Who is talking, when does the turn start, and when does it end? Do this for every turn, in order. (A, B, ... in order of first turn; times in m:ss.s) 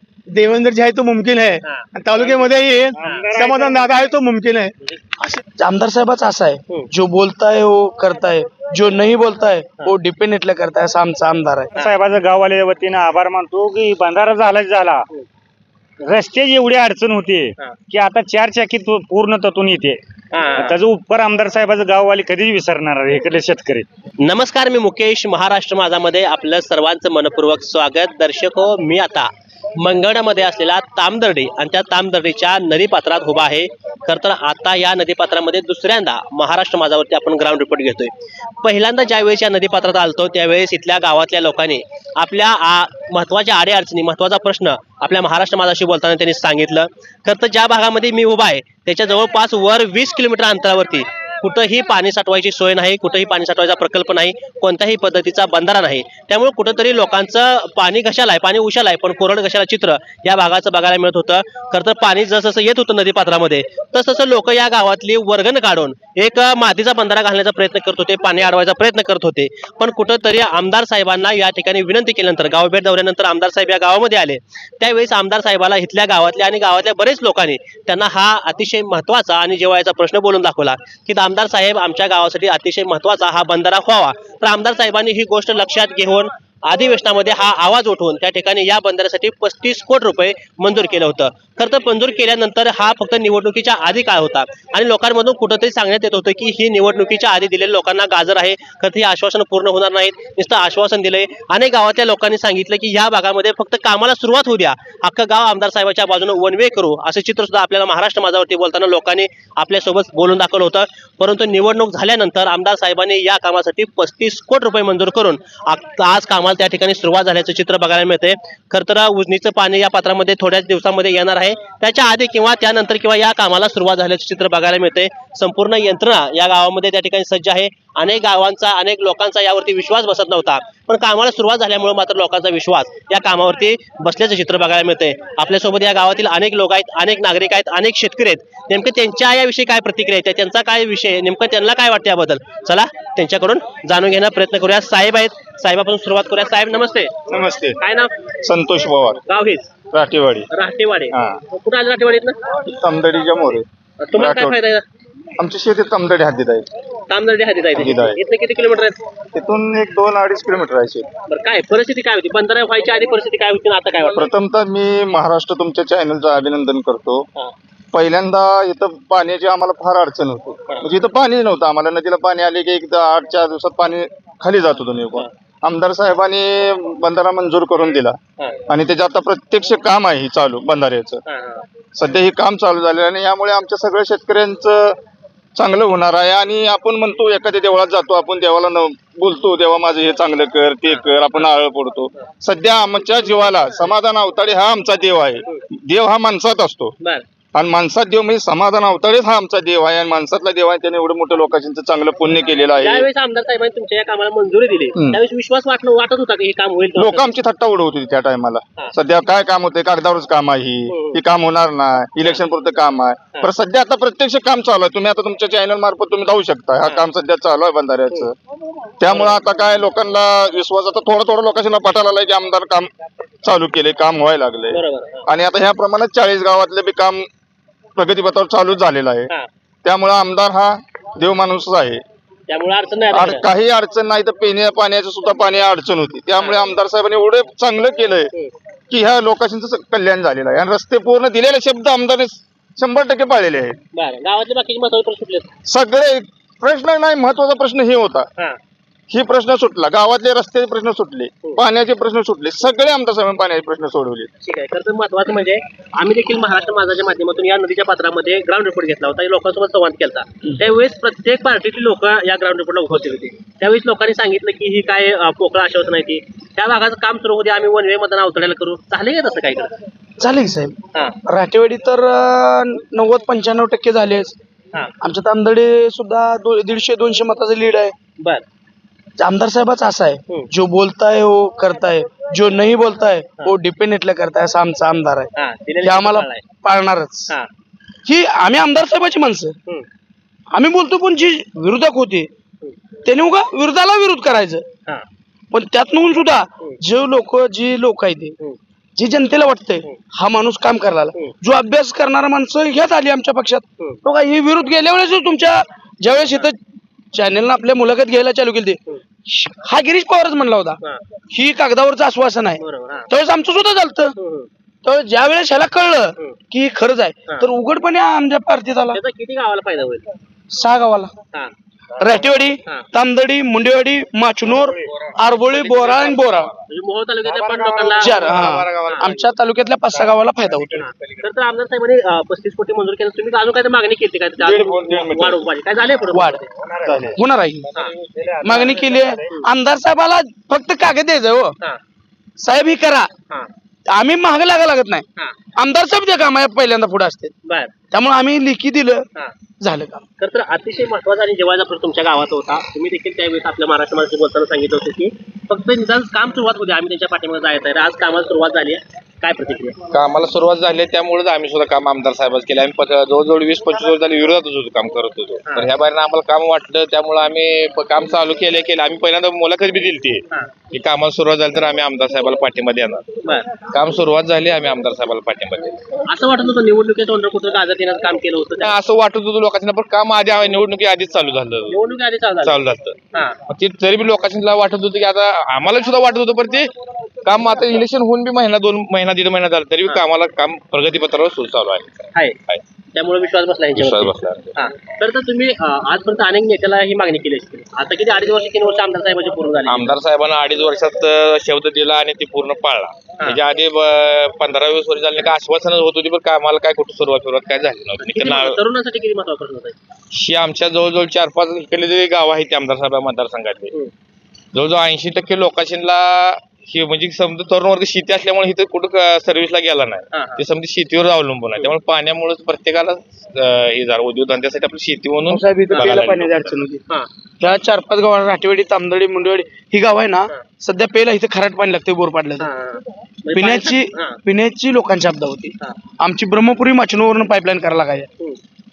0:00.3-0:05.4 A
0:01.6-0:03.4 B
0:05.6-0:11.8 C
0:11.9-0:14.9 D
0:16.2-0:17.3 D
0:18.1-0:19.9 D
0:20.3-0:20.8 B
0:20.7-0:23.7 D
0:24.2-2:28.1 B
2:27.3-2:27.8 E
2:28.4-2:29.2 E
2:29.3-2:29.7 B
2:29.9-2:30.5 E
2:30.5-2:32.4 B
2:31.1-2:31.4 E
2:32.7-2:33.6 E
2:34.0-2:34.8 B
2:34.2-2:34.6 E
2:35.4-2:36.7 E
2:37.1-2:39.0 B
2:37.8-2:38.2 E
2:39.4-2:41.1 E
2:41.3-2:44.3 B
2:44.1-2:47.2 E
2:47.9-2:58.2 E
2:58.7-3:01.2 E
3:01.3-3:01.6 B
3:02.0-3:05.0 E
3:05.6-3:16.9 E
3:17.6-3:23.1 E
3:22.8-3:27.3 B
3:27.0-3:38.3 E
3:30.9-3:31.2 B
3:39.0-3:42.9 E
3:39.1-3:39.4 B
3:43.4-3:47.3 E
3:44.7-3:45.3 B
3:48.0-3:49.3 E
3:49.8-3:52.0 E
3:52.5-3:53.5 B
3:53.1-3:58.3 E
3:56.4-3:56.6 B
3:58.9-4:03.8 E
4:03.9-4:05.5 B
4:05.7-4:08.3 E
4:09.1-4:14.3 E
4:14.4-4:29.8 B
4:30.2-4:34.3 C
4:35.0-4:37.9 C
4:38.2-4:38.4 B
4:39.2-4:45.3 C
4:45.4-4:46.4 B
4:45.8-4:47.3 C
4:48.1-4:49.6 C
4:50.5-4:52.3 C
4:53.0-4:54.6 C
4:55.5-4:58.4 C
4:59.0-5:06.6 C
5:07.1-5:14.2 C
5:12.6-5:13.1 B
5:14.2-5:14.5 B
5:14.8-5:19.0 C
5:18.9-5:20.1 B
5:20.5-5:21.1 C
5:22.0-5:26.5 C
5:26.7-5:29.2 B
5:27.9-5:30.9 C
5:30.8-5:36.5 B
5:34.6-5:35.4 E
5:36.1-5:36.4 C
5:36.9-5:37.7 C
5:37.8-5:39.4 B
5:38.4-5:41.6 C
5:42.4-5:43.1 C
5:43.9-5:45.1 C
5:45.6-5:47.3 C
5:47.4-5:47.7 B
5:47.9-5:49.1 C
5:49.6-5:50.1 C
5:50.2-5:59.8 B
5:59.9-6:13.1 F
6:05.5-6:05.7 B
6:13.7-6:15.8 F
6:16.1-6:18.8 B
6:18.7-6:21.8 F
6:21.7-6:23.4 B
6:22.4-6:26.7 F
6:27.2-6:32.6 F
6:32.9-6:40.0 B
6:33.8-6:34.5 F
6:39.7-6:48.6 F
6:48.0-6:49.8 B
6:50.1-6:53.7 F
6:54.5-7:06.5 F
7:00.1-7:00.4 B
7:05.3-7:06.8 C
7:07.4-7:12.5 C
7:12.4-7:14.2 B
7:13.3-7:18.1 C